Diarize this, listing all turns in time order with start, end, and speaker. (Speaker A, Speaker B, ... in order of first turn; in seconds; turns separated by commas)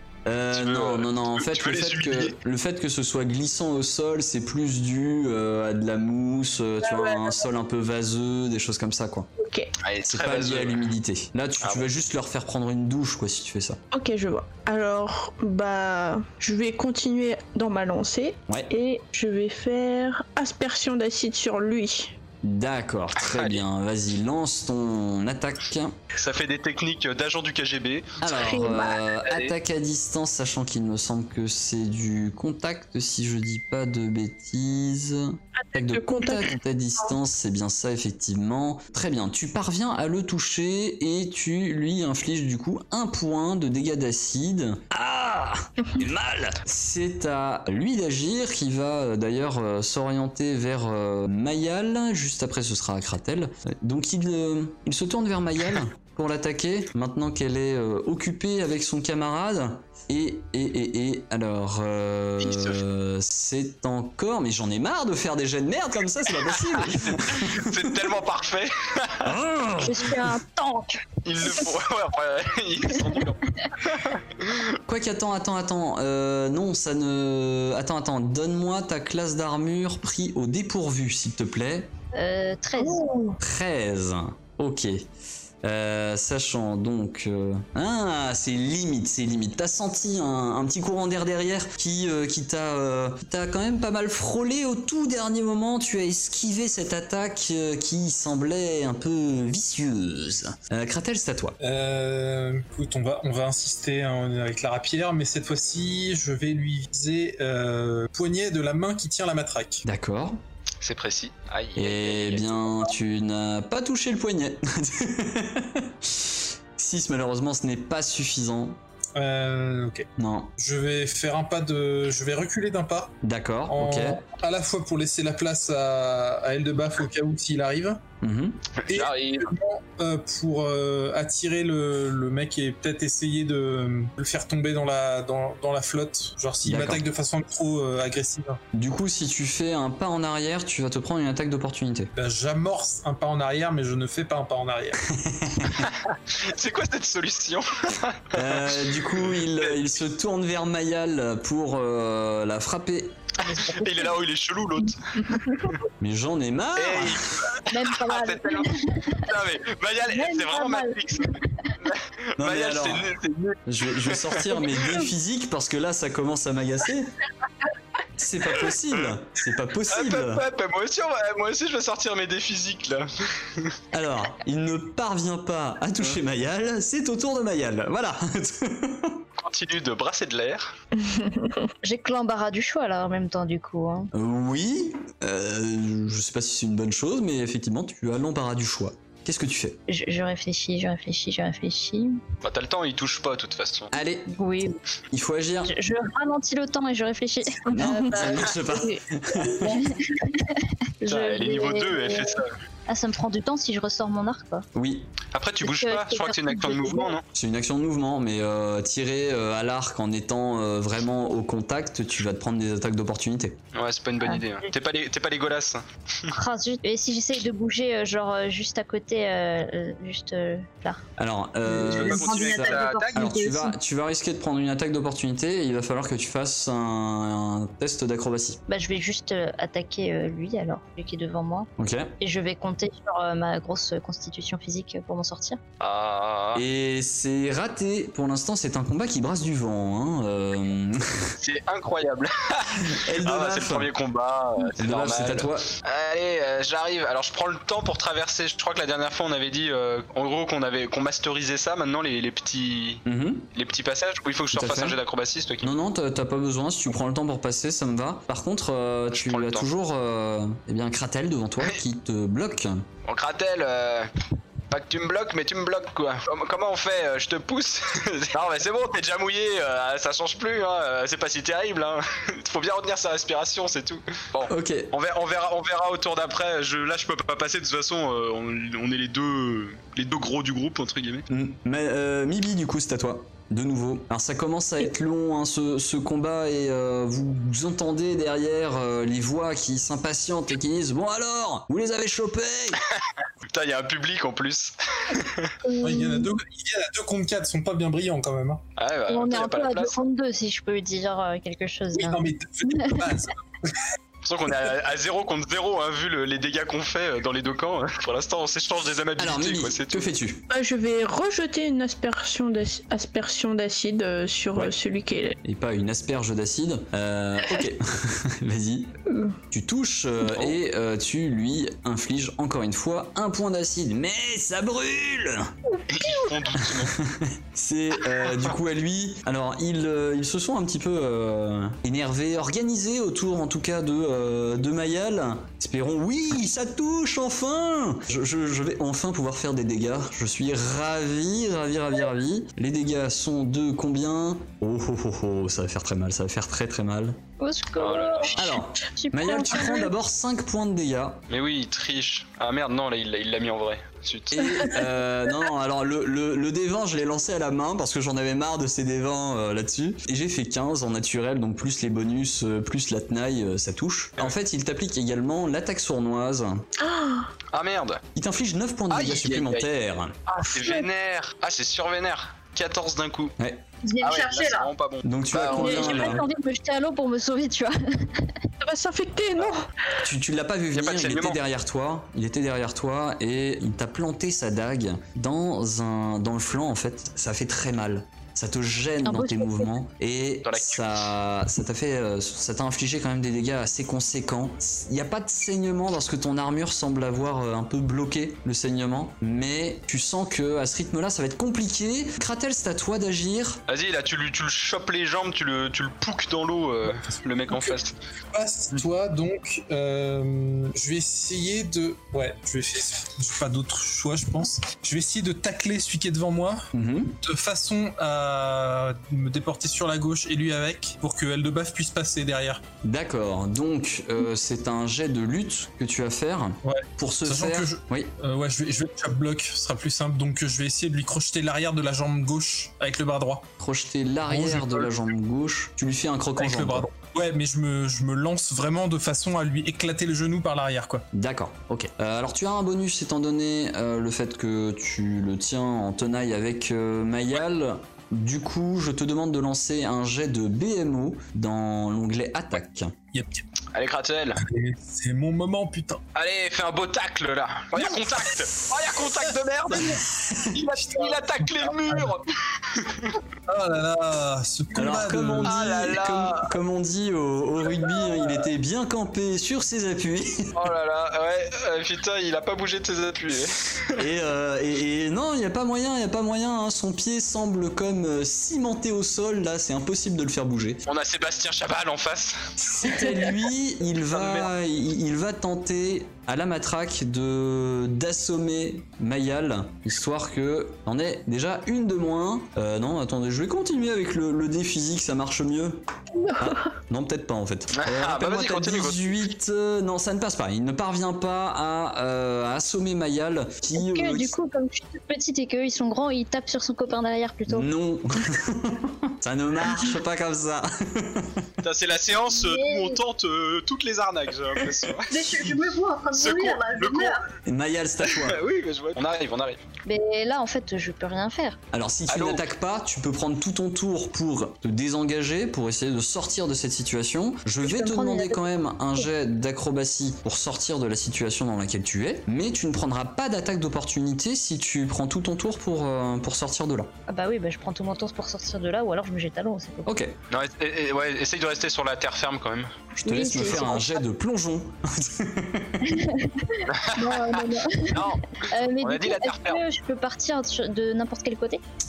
Speaker A: 0.2-9.3, Speaker B: 0.5-2.3, Speaker C: 6.8-7.5, Speaker C: 9.4-9.7, Speaker B: 9.8-10.9, Speaker A: 10.1-13.8, Speaker B: 11.6-11.9, Speaker C: 13.9-22.1, Speaker A: 22.4-25.9, Speaker B: 23.2-23.6, Speaker B: 26.1-28.2, Speaker A: 28.2-67.9, Speaker C: 28.3-29.0, Speaker B: 29.3-29.5, Speaker C: 35.6-36.5, Speaker B: 62.4-62.8, Speaker B: 66.7-69.3, Speaker A: 69.2-70.3, Speaker D: 69.8-71.7, Speaker B: 71.2-74.7, Speaker A: 74.8-81.9, Speaker D: 82.1-83.1, Speaker A: 83.4-85.0, Speaker A: 85.6-101.6, Speaker E: 101.6-109.8, Speaker A: 109.8-110.4, Speaker B: 110.8-112.9, Speaker A: 111.8-118.8, Speaker E: 119.2-123.2, Speaker A: 120.2-120.5, Speaker A: 123.2-124.2, Speaker E: 123.7-128.0, Speaker A: 128.2-128.6, Speaker B: 128.8-129.5, Speaker E: 128.9-138.6, Speaker A: 136.6-137.0, Speaker A: 138.7-142.1, Speaker E: 142.2-145.0, Speaker A: 145.1-145.9, Speaker B: 145.8-149.8, Speaker A: 148.3-153.1, Speaker D: 153.4-154.2, Speaker B: 153.4-155.8, Speaker D: 155.4-155.6, Speaker A: 156.0-157.3, Speaker B: 156.8-164.4, Speaker D: 157.7-159.3, Speaker D: 160.1-161.9, Speaker A: 162.4-163.1, Speaker A: 163.7-167.1, Speaker A: 168.2-170.4, Speaker B: 169.9-173.8, Speaker A: 173.9-179.2, Speaker B: 179.4-180.8, Speaker C: 180.9-181.7, Speaker D: 181.8-184.1, Speaker A: 184.1-189.8, Speaker D: 189.9-192.2, Speaker B: 192.4-193.9, Speaker A: 193.9-194.3, Speaker D: 194.3-194.8, Speaker A: 195.1-195.7, Speaker D: 195.6-204.6, Speaker A: 197.7-199.8, Speaker B: 201.0-202.5, Speaker A: 204.7-205.1, Speaker B: 205.3-207.2, Speaker D: 205.6-207.1, Speaker A: 207.3-213.6, Speaker B: 213.7-216.3, Speaker D: 214.2-214.7, Speaker D: 216.3-221.0, Speaker A: 221.2-228.6, Speaker F: 221.8-223.8, Speaker B: 221.9-223.3, Speaker D: 228.7-231.7, Speaker A: 231.8-232.1, Speaker D: 232.2-235.6, Speaker B: 235.8-236.6, Speaker A: 236.5-241.3, Speaker B: 241.4-253.0, Speaker A: 242.9-243.9, Speaker A: 244.8-245.7, Speaker A: 253.1-253.5, Speaker B: 253.5-255.7, Speaker A: 254.5-255.0, Speaker A: 255.6-262.8, Speaker B: 259.1-259.7, Speaker B: 263.0-264.1, Speaker B: 264.7-281.3, Speaker A: 274.5-274.9, Speaker A: 281.3-292.8, Speaker B: 293.5-295.5, Speaker C: 295.7-296.3, Speaker E: 295.8-298.6, Speaker B: 298.8-299.9, Speaker D: 299.1-303.1, Speaker E: 301.9-303.8, Speaker B: 304.2-310.1, Speaker A: 309.2-310.4, Speaker C: 310.5-315.4, Speaker A: 315.4-318.9, Speaker C: 319.1-319.3, Speaker A: 319.5-325.5, Speaker B: 325.9-326.9, Speaker A: 326.6-347.2, Speaker D: 347.4-349.9, Speaker B: 347.8-348.4, Speaker A: 348.4-351.2, Speaker B: 351.3-354.7, Speaker A: 354.3-366.6, Speaker C: 366.8-367.3, Speaker B: 367.5-368.0, Speaker A: 368.1-370.1, Speaker B: 368.9-369.7, Speaker B: 370.3-373.3, Speaker C: 370.6-370.8, Speaker F: 373.8-374.7, Speaker B: 374.0-376.2, Speaker A: 375.0-376.2, Speaker D: 375.4-378.4, Speaker C: 378.6-379.7, Speaker A: 380.0-403.6, Speaker B: 380.7-381.4, Speaker D: 389.0-389.7, Speaker B: 390.4-391.1, Speaker B: 403.7-407.9, Speaker E: 407.5-407.8, Speaker E: 408.3-416.7, Speaker A: 416.7-417.2, Speaker E: 417.2-422.6, Speaker A: 422.8-428.1, Speaker E: 426.6-433.4, Speaker A: 433.6-436.9, Speaker E: 434.3-434.9, Speaker E: 436.4-441.0, Speaker A: 441.1-452.9, Speaker E: 453.1-453.4, Speaker B: 453.7-454.4, Speaker E: 454.4-456.0, Speaker B: 456.1-463.2, Speaker E: 457.8-458.0, Speaker E: 459.0-460.0, Speaker A: 460.1-460.5, Speaker E: 460.7-462.1, Speaker E: 463.5-465.7, Speaker A: 464.7-470.6, Speaker B: 465.4-466.5, Speaker E: 467.9-468.1, Speaker B: 470.5-474.0, Speaker A: 474.0-480.8, Speaker B: 480.9-482.5, Speaker A: 482.6-495.8, Speaker B: 484.1-484.5, Speaker C: 496.2-496.6, Speaker A: 496.4-504.3, Speaker B: 497.7-499.3, Speaker D: 503.7-507.7, Speaker A: 507.5-511.5, Speaker B: 511.6-515.5, Speaker F: 512.3-513.0, Speaker F: 515.1-517.2, Speaker B: 516.1-517.2, Speaker A: 517.4-518.4, Speaker B: 518.1-519.6, Speaker D: 519.9-521.6, Speaker A: 521.7-536.9, Speaker B: 522.1-522.5, Speaker D: 527.6-528.4, Speaker D: 537.1-539.9, Speaker A: 539.8-540.1, Speaker B: 540.3-542.7, Speaker A: 543.0-545.9, Speaker D: 543.0-544.0, Speaker D: 545.8-551.6, Speaker B: 546.7-549.6